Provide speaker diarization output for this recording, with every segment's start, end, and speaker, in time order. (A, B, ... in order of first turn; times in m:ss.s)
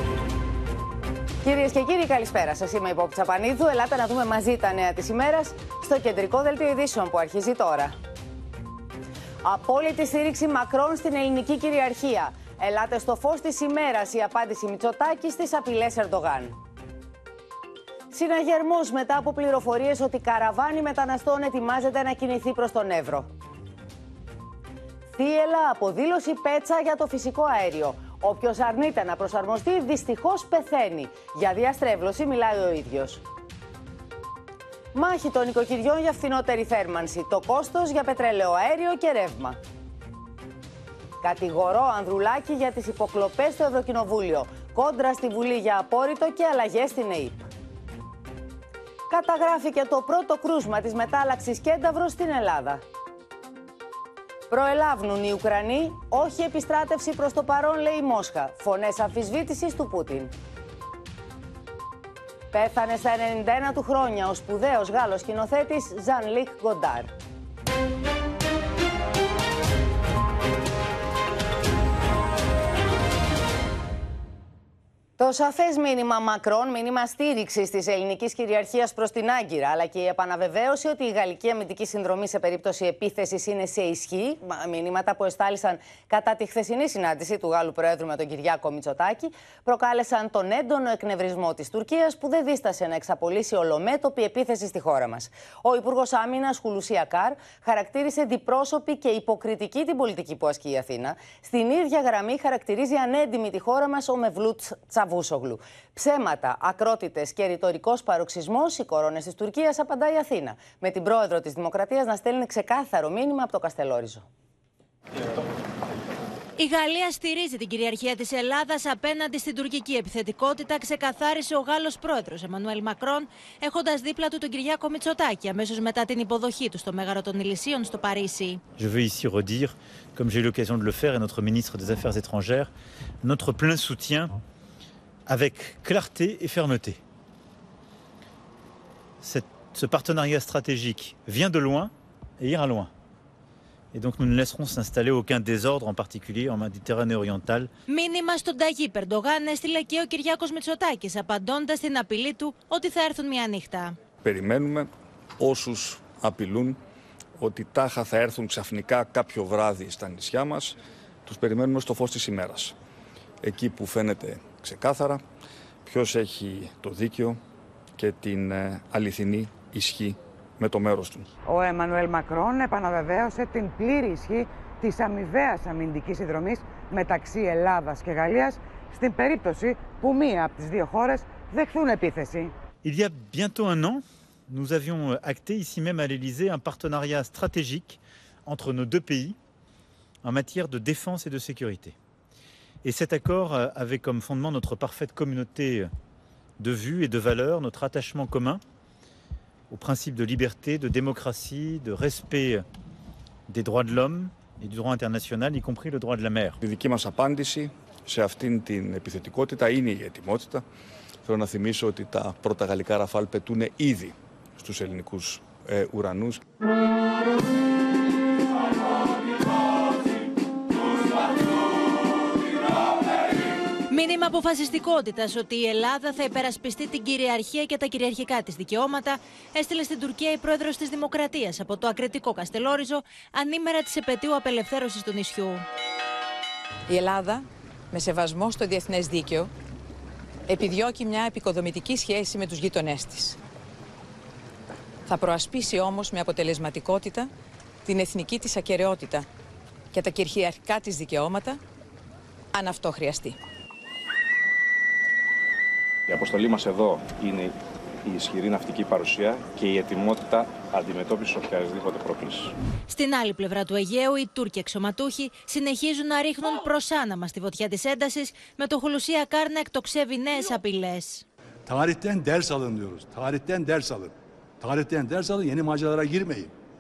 0:01.4-0:08.0 A
0:09.4-0:16.6 A
0:18.1-0:23.3 A
0:25.1-0:33.2 A
0:34.9-0:39.6 A
0:41.2-0:47.5 A
0:49.1-0:52.8 A
0:54.5-1:00.3 A
1:02.5-1:07.1 A
1:15.2-1:54.2 A
1:56.6-2:08.6 B
2:08.8-2:12.7 C
2:13.2-2:14.4 C
2:15.2-2:17.0 C
2:19.2-2:22.9 C
2:23.9-2:27.7 C
2:27.9-2:34.0 B
2:34.2-2:36.8 D
2:37.4-2:42.8 D
2:43.4-2:45.2 D
2:45.8-2:47.4 D
2:48.0-2:51.3 D
2:51.4-3:02.5 E
3:02.8-3:09.4 C
3:10.2-3:11.9 C
3:12.8-3:15.9 C
3:16.6-3:18.6 C
3:19.7-3:22.6 C
3:23.5-3:26.6 C
3:26.6-3:30.6 D
3:31.2-3:36.4 D
3:43.9-3:55.6 B
3:56.9-3:59.5 F
4:00.5-4:03.4 F
4:05.1-4:07.3 F
4:07.8-4:09.2 F
4:09.9-4:11.6 F
4:12.5-4:13.4 F
4:16.1-4:17.4 G
4:18.1-4:22.4 G
4:22.9-4:31.2 B
4:31.7-4:36.5 H